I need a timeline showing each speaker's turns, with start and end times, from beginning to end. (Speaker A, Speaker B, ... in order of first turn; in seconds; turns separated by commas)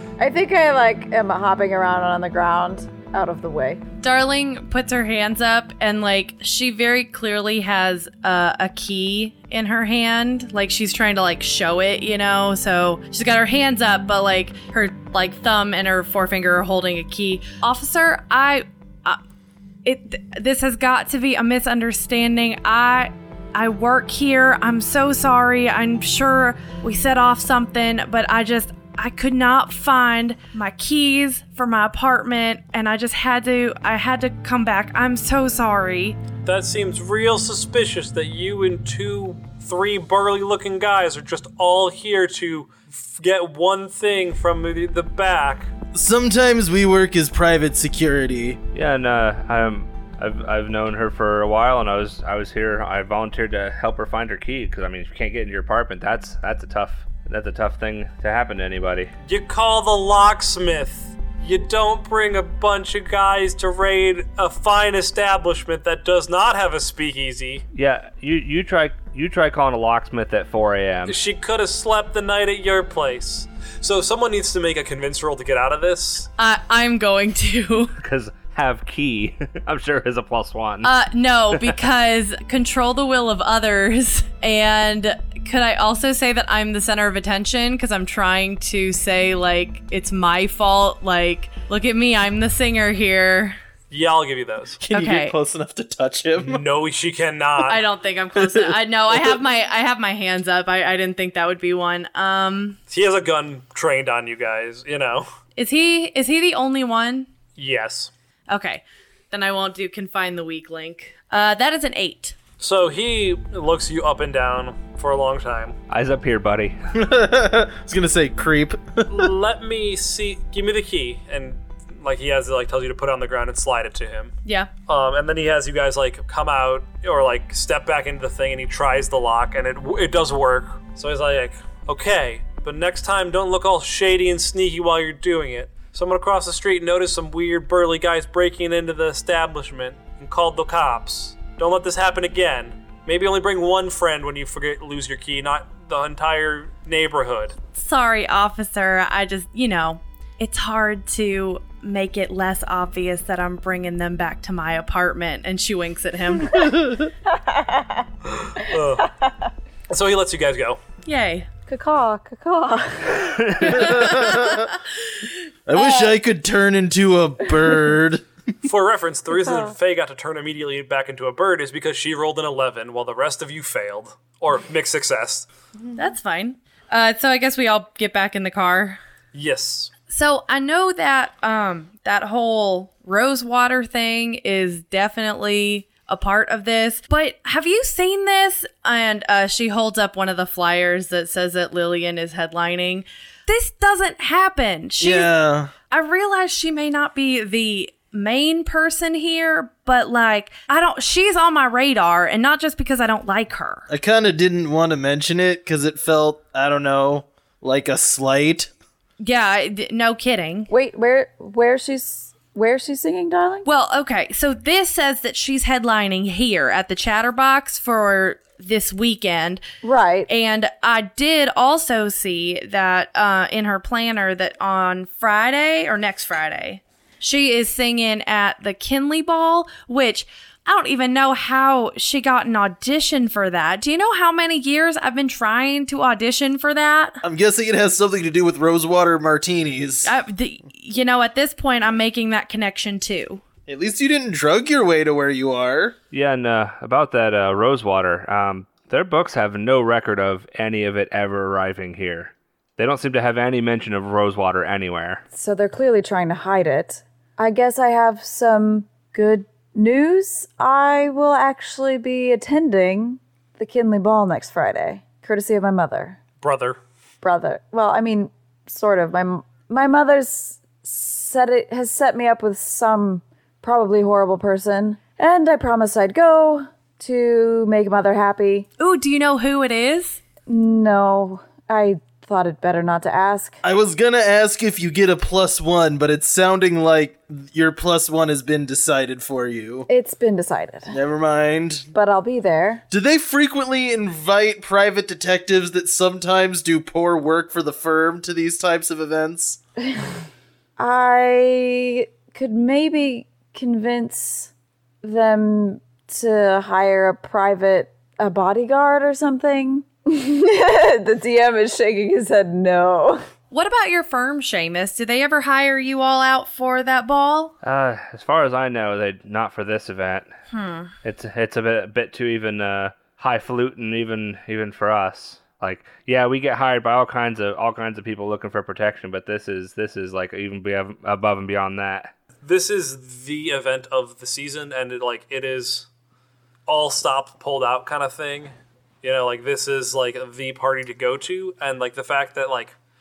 Speaker A: 0.2-3.8, Speaker B: 4.0-19.2, Speaker B: 19.8-36.2, Speaker C: 36.5-45.7, Speaker D: 45.9-48.6, Speaker E: 48.7-59.1, Speaker C: 59.2-67.6, Speaker E: 67.8-71.2, Speaker C: 71.1-76.3, Speaker B: 76.4-77.9, Speaker E: 78.0-80.9, Speaker B: 80.8-93.6, Speaker E: 81.5-81.8, Speaker C: 93.9-94.8, Speaker D: 94.8-96.6, Speaker B: 94.9-95.3, Speaker C: 96.4-97.8, Speaker B: 97.7-102.8, Speaker D: 98.4-99.4, Speaker C: 102.9-105.3, Speaker B: 105.6-107.3, Speaker C: 107.6-108.1, Speaker B: 108.5-112.4, Speaker C: 112.6-115.8, Speaker E: 115.9-116.8, Speaker D: 117.0-119.3, Speaker C: 119.1-124.3, Speaker C: 124.9-147.6, Speaker B: 147.8-156.6, Speaker D: 156.5-157.1, Speaker A: 157.3-158.1, Speaker C: 158.3-159.1, Speaker A: 159.0-159.3, Speaker C: 159.9-160.8, Speaker B: 161.1-161.5, Speaker A: 161.7-164.4, Speaker E: 163.3-163.8, Speaker D: 163.7-164.7, Speaker D: 165.7-168.2, Speaker C: 168.6-175.5, Speaker A: 169.3-169.8, Speaker B: 175.9-179.0, Speaker C: 179.3-179.9, Speaker B: 180.1-195.3, Speaker D: 195.0-195.7, Speaker B: 195.9-203.9, Speaker D: 203.9-208.7, Speaker B: 209.2-210.7, Speaker A: 210.7-213.7, Speaker B: 213.7-219.6, Speaker A: 219.8-220.3, Speaker B: 220.3-237.2, Speaker D: 237.2-240.1, Speaker B: 240.0-243.4, Speaker D: 243.7-246.0, Speaker E: 246.1-255.2, Speaker A: 255.3-266.2, Speaker C: 266.4-266.8, Speaker A: 267.2-278.7, Speaker B: 278.8-280.2, Speaker A: 280.5-283.6, Speaker D: 283.6-289.9, Speaker A: 289.9-291.0, Speaker D: 290.9-291.9, Speaker A: 291.9-292.8, Speaker D: 292.9-299.6, Speaker A: 299.8-300.1, Speaker A: 300.8-313.2, Speaker B: 313.5-317.5, Speaker E: 317.6-320.3, Speaker B: 320.5-320.9, Speaker E: 321.0-332.1, Speaker C: 332.4-335.9, Speaker C: 336.7-342.8